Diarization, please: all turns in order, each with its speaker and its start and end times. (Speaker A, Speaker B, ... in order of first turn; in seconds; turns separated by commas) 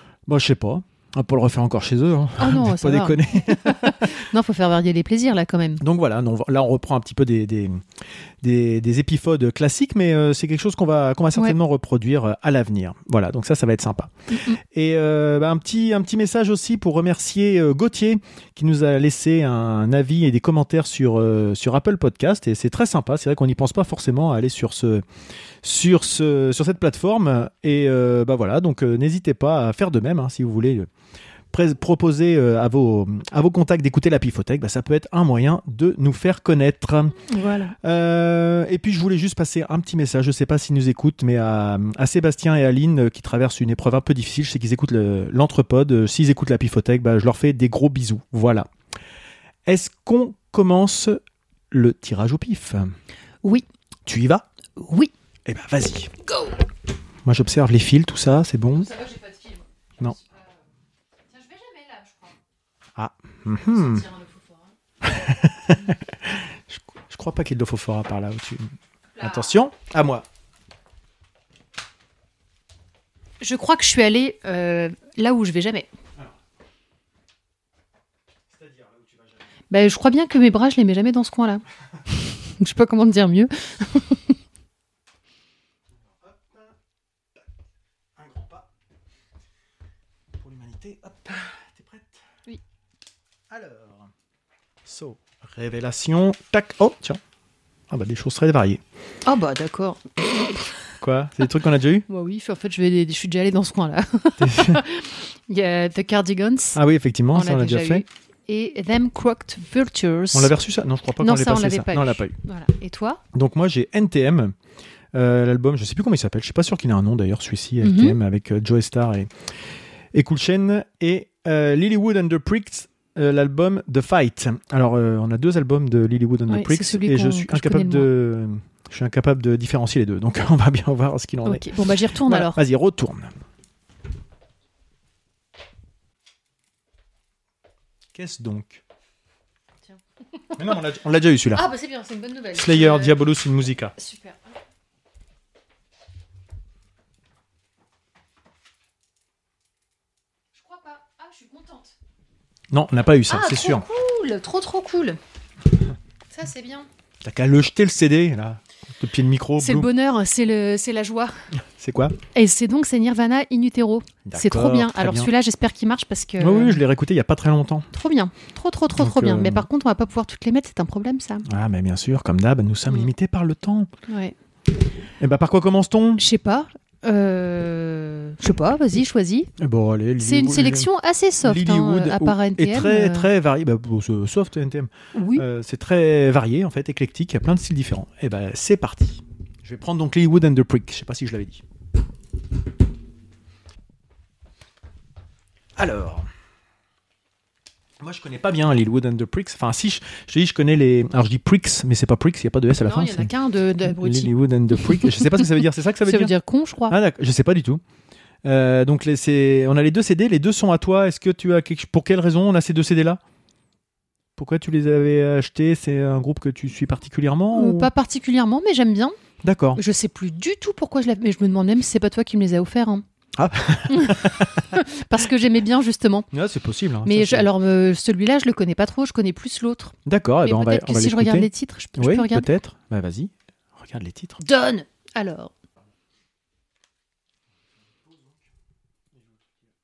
Speaker A: 0.3-4.1, Speaker B: 2.4-5.8, Speaker A: 5.8-7.8, Speaker A: 8.4-14.1, Speaker B: 14.3-14.6, Speaker A: 14.7-25.0, Speaker A: 25.6-30.9, Speaker A: 31.5-37.2, Speaker B: 37.3-37.7, Speaker A: 37.8-48.7, Speaker A: 49.6-52.9, Speaker A: 54.0-54.5, Speaker B: 54.8-55.1, Speaker A: 55.5-56.1, Speaker A: 57.2-58.9, Speaker B: 58.7-60.5, Speaker B: 61.3-62.4, Speaker A: 63.0-64.0, Speaker B: 63.5-64.7, Speaker A: 65.0-70.2, Speaker B: 69.1-69.5, Speaker B: 73.4-75.9, Speaker A: 78.5-79.2, Speaker B: 79.7-81.6, Speaker B: 82.6-84.3, Speaker A: 86.2-86.7, Speaker A: 88.2-88.7, Speaker A: 90.3-92.1, Speaker A: 93.5-94.1, Speaker A: 94.8-97.2, Speaker A: 97.9-98.8, Speaker B: 99.2-100.3, Speaker A: 101.0-102.0, Speaker B: 102.1-106.8, Speaker A: 104.4-104.8, Speaker A: 106.7-108.0, Speaker B: 107.3-110.5, Speaker A: 110.3-112.3, Speaker B: 111.2-113.2, Speaker A: 113.3-114.5, Speaker A: 115.1-119.3, Speaker B: 117.8-118.2, Speaker A: 120.1-131.7, Speaker B: 126.5-128.1, Speaker B: 131.4-132.6, Speaker A: 132.2-133.4, Speaker A: 138.1-138.8, Speaker A: 140.6-141.6, Speaker B: 141.5-143.2, Speaker A: 142.5-143.9, Speaker B: 144.0-144.4, Speaker B: 150.6-151.9, Speaker A: 152.7-153.8, Speaker B: 153.3-155.2, Speaker B: 156.3-156.9, Speaker A: 157.2-159.9, Speaker B: 159.6-161.3, Speaker A: 161.8-162.2, Speaker B: 162.3-166.8, Speaker A: 164.2-165.3, Speaker A: 166.4-167.9, Speaker B: 167.9-171.4, Speaker A: 169.0-169.7, Speaker A: 171.4-173.9, Speaker B: 174.1-174.3, Speaker A: 175.2-176.2, Speaker B: 176.2-179.5, Speaker A: 179.6-180.9, Speaker B: 180.2-183.3, Speaker A: 181.4-191.6, Speaker B: 185.1-185.4, Speaker A: 195.8-196.3, Speaker A: 198.0-203.3, Speaker B: 202.8-204.3, Speaker A: 203.8-206.3, Speaker B: 204.9-205.2, Speaker B: 206.1-207.0, Speaker A: 206.9-207.8, Speaker A: 208.4-213.2, Speaker A: 214.4-217.9, Speaker B: 217.5-219.2, Speaker A: 219.4-219.8, Speaker B: 219.7-223.0, Speaker A: 223.4-224.8, Speaker B: 223.9-226.3, Speaker A: 226.3-227.5, Speaker B: 227.0-232.5, Speaker A: 230.1-234.4, Speaker B: 234.4-235.5